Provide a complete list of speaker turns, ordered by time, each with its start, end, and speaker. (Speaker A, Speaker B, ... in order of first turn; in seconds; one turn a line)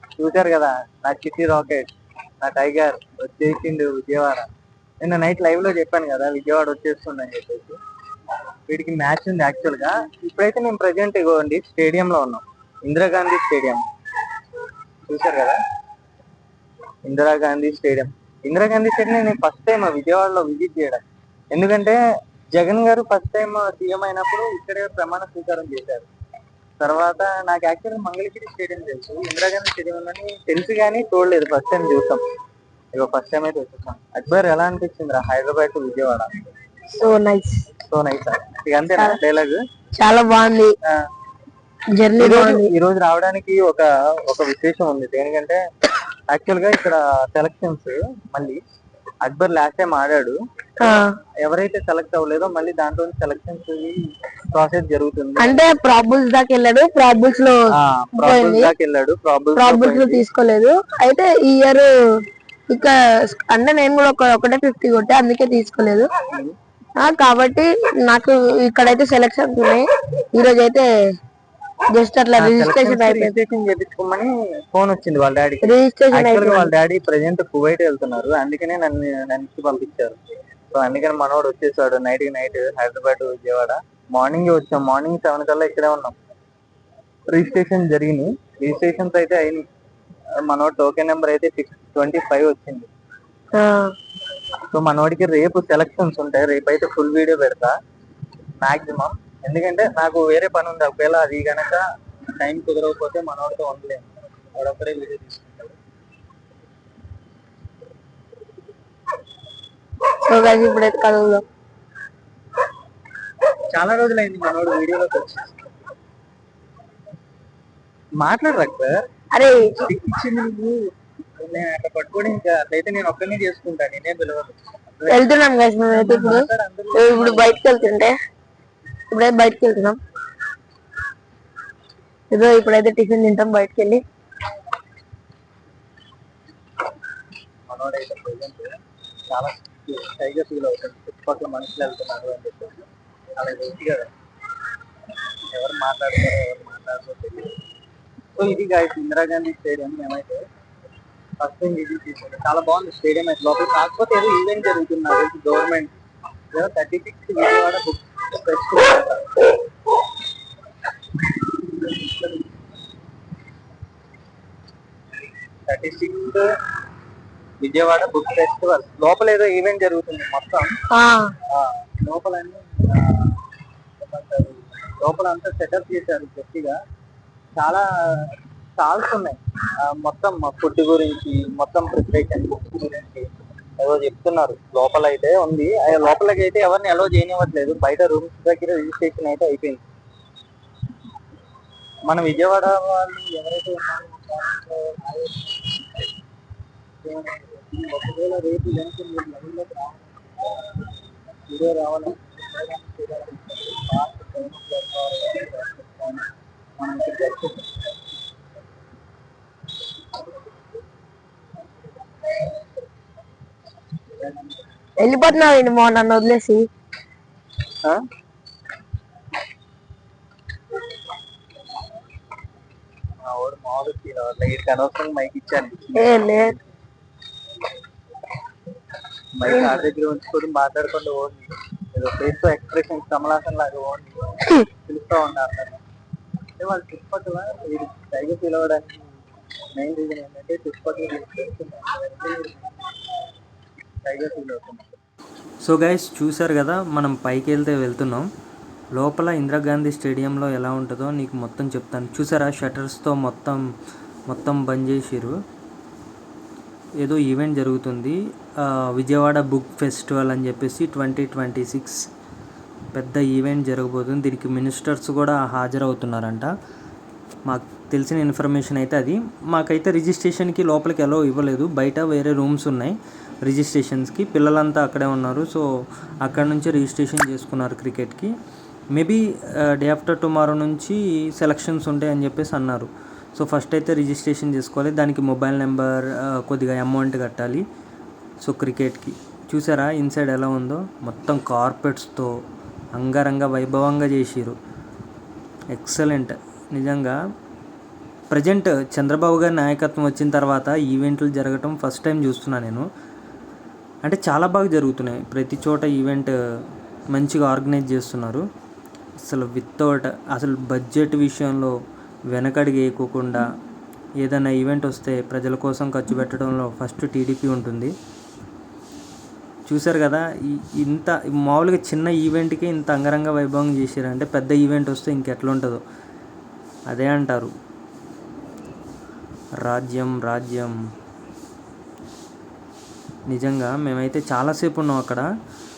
Speaker A: 0.2-1.9
Speaker A: 2.4-4.5
Speaker A: 5.0-7.8
Speaker A: 8.7-13.8
Speaker A: 15.1-15.6
Speaker A: 17.1-22.0
Speaker A: 22.5-26.1
Speaker A: 26.8-32.2
Speaker A: 32.9-36.3
Speaker B: 37.0-37.6
Speaker A: 37.9-39.6
Speaker B: 40.0-40.7
Speaker B: 42.0-42.7
Speaker A: 42.2-45.6
Speaker A: 46.3-48.6
Speaker A: 49.2-55.6
Speaker B: 50.8-51.1
Speaker B: 55.4-57.6
Speaker A: 57.7-60.2
Speaker B: 58.2-58.7
Speaker B: 59.5-61.9
Speaker B: 62.7-66.1
Speaker A: 66.3-66.5
Speaker B: 67.0-70.9
Speaker B: 71.9-73.3
Speaker A: 72.4-80.2
Speaker B: 75.6-76.7
Speaker A: 80.7-86.2
Speaker A: 87.3-89.6
Speaker A: 90.5-92.9
Speaker B: 93.5-93.9
Speaker A: 94.7-97.7
Speaker A: 98.6-101.8
Speaker A: 102.4-105.8
Speaker B: 110.3-111.4
Speaker A: 113.7-115.7
Speaker A: 118.2-119.0
Speaker B: 119.3-119.6
Speaker A: 119.5-120.8
Speaker A: 121.4-127.7
Speaker B: 125.1-126.5
Speaker B: 127.0-128.1
Speaker B: 129.1-130.0
Speaker B: 132.3-134.0
Speaker A: 137.7-138.7
Speaker A: 139.3-144.1
Speaker A: 145.5-147.6
Speaker A: 148.4-150.4
Speaker A: 151.4-156.0
Speaker A: 156.5-159.5
Speaker A: 165.7-166.4
Speaker A: 167.6-170.7
Speaker B: 170.9-171.3
Speaker A: 171.5-173.3
Speaker A: 174.0-176.8
Speaker A: 177.6-189.8
Speaker A: 192.1-195.8
Speaker A: 197.0-200.9
Speaker A: 201.5-207.9
Speaker B: 215.0-216.7
Speaker A: 223.2-226.6
Speaker B: 226.0-226.5
Speaker A: 229.3-235.8
Speaker B: 229.5-229.8
Speaker A: 236.6-239.1
Speaker A: 239.7-242.9
Speaker A: 244.1-245.0
Speaker C: 245.6-248.3
Speaker C: 248.9-253.6
Speaker C: 254.3-255.3
Speaker C: 257.0-262.0
Speaker C: 262.9-266.5
Speaker C: 267.5-272.9
Speaker C: 273.4-275.6
Speaker C: 276.2-278.3
Speaker C: 278.9-287.6
Speaker C: 288.4-292.3
Speaker C: 292.9-294.6
Speaker C: 295.7-297.2
Speaker C: 298.3-302.8
Speaker C: 304.1-306.3
Speaker C: 307.1-308.4
Speaker C: 309.3-311.7
Speaker C: 312.3-313.4
Speaker C: 314.2-317.9
Speaker C: 319.7-325.8
Speaker C: 326.9-327.5
Speaker C: 329.6-330.7
Speaker C: 333.3-335.2